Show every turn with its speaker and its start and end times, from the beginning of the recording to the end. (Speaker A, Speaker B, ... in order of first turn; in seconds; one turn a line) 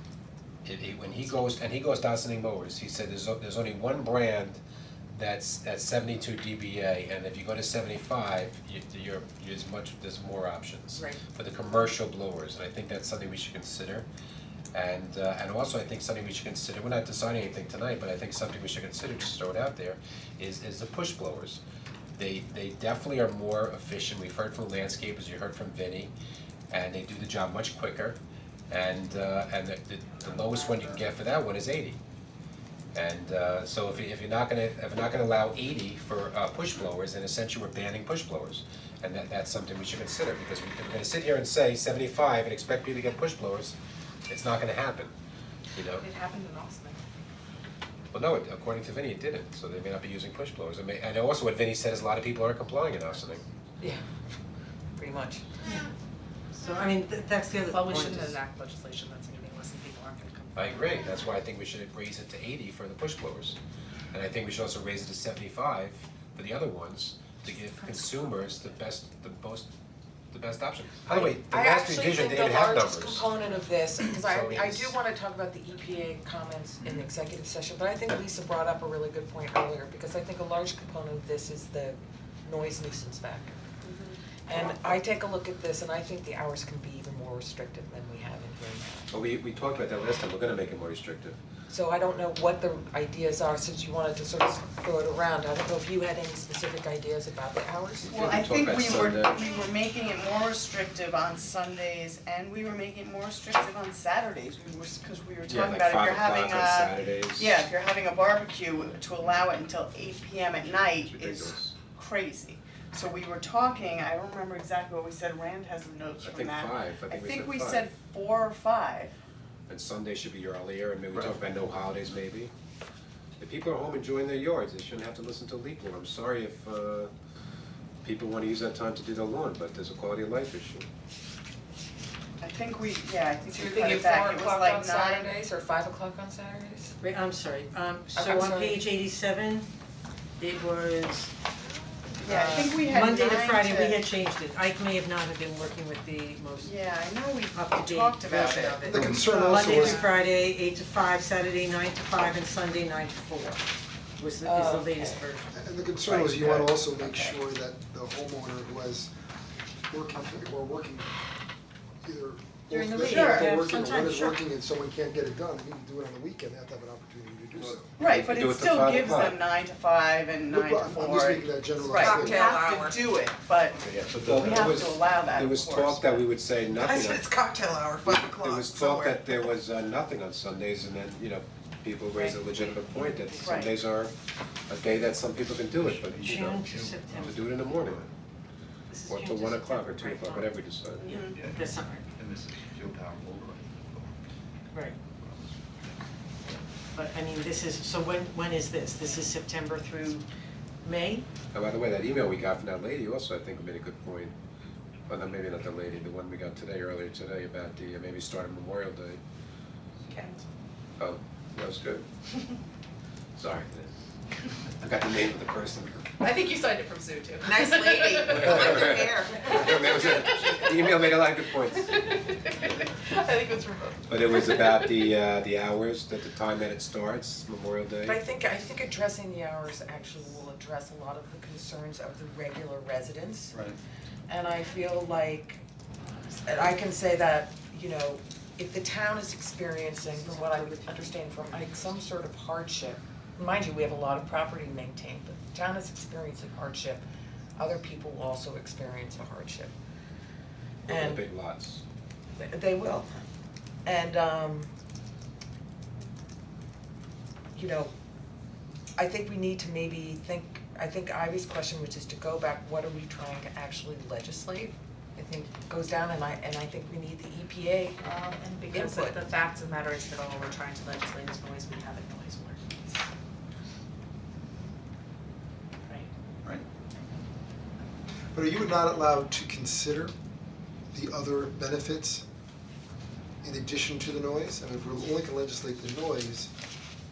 Speaker A: 0.6-4.6
Speaker A: 5.1-14.1
Speaker B: 10.9-11.2
Speaker A: 14.7-21.6
Speaker A: 22.2-26.1
Speaker A: 26.7-28.2
Speaker A: 28.7-32.0
Speaker A: 32.9-43.7
Speaker A: 44.3-45.1
Speaker A: 45.7-46.0
Speaker C: 46.0-47.0
Speaker A: 48.1-53.4
Speaker B: 55.0-55.5
Speaker D: 56.5-58.4
Speaker C: 57.7-61.0
Speaker A: 60.5-63.6
Speaker A: 64.1-69.7
Speaker A: 70.3-73.3
Speaker B: 71.1-83.6
Speaker A: 74.2-75.0
Speaker E: 83.8-84.2
Speaker B: 84.5-89.1
Speaker A: 89.1-91.4
Speaker B: 91.7-98.1
Speaker A: 98.0-99.4
Speaker E: 98.1-119.1
Speaker A: 105.5-107.6
Speaker A: 111.0-111.7
Speaker A: 116.2-117.8
Speaker A: 119.7-122.5
Speaker A: 123.4-127.1
Speaker A: 128.0-130.9
Speaker E: 132.4-135.4
Speaker B: 133.5-136.9
Speaker D: 137.0-139.7
Speaker B: 138.1-138.8
Speaker D: 140.4-141.3
Speaker E: 142.2-144.0
Speaker D: 142.3-146.7
Speaker E: 146.6-148.9
Speaker D: 147.5-153.7
Speaker B: 148.8-150.0
Speaker F: 148.8-150.1
Speaker D: 154.2-157.3
Speaker B: 154.4-155.3
Speaker F: 155.5-159.1
Speaker F: 159.9-161.1
Speaker F: 162.0-167.9
Speaker D: 162.7-164.4
Speaker E: 163.1-163.5
Speaker A: 167.6-169.4
Speaker E: 168.0-173.8
Speaker F: 170.5-172.4
Speaker B: 171.9-173.0
Speaker A: 173.8-177.2
Speaker G: 174.1-174.9
Speaker E: 174.3-176.2
Speaker B: 176.9-179.1
Speaker A: 178.0-184.1
Speaker D: 183.1-183.5
Speaker E: 183.4-183.7
Speaker A: 184.7-186.6
Speaker G: 185.7-188.1
Speaker D: 186.2-187.6
Speaker A: 187.2-188.0
Speaker D: 188.9-192.0
Speaker A: 189.1-191.1
Speaker E: 191.0-191.4
Speaker G: 191.3-194.2
Speaker D: 194.7-195.0
Speaker G: 195.1-196.0
Speaker D: 196.5-200.2
Speaker D: 200.8-201.2
Speaker A: 201.5-204.3
Speaker A: 205.1-209.2
Speaker C: 210.1-210.4
Speaker A: 211.0-212.1
Speaker A: 213.4-213.9
Speaker A: 214.8-216.1
Speaker C: 216.2-220.7
Speaker A: 218.2-222.0
Speaker C: 221.9-224.1
Speaker A: 224.1-228.2
Speaker B: 228.0-233.6
Speaker B: 234.3-235.6
Speaker B: 236.4-247.0
Speaker D: 240.2-241.1
Speaker B: 247.6-249.7
Speaker B: 250.8-251.3
Speaker A: 250.8-251.8
Speaker B: 252.4-253.3
Speaker B: 253.8-254.7
Speaker B: 257.5-257.9
Speaker B: 259.0-268.1
Speaker C: 268.0-273.0
Speaker B: 268.7-269.2
Speaker C: 275.8-276.1
Speaker F: 278.3-280.1
Speaker F: 280.9-282.2
Speaker F: 283.4-286.5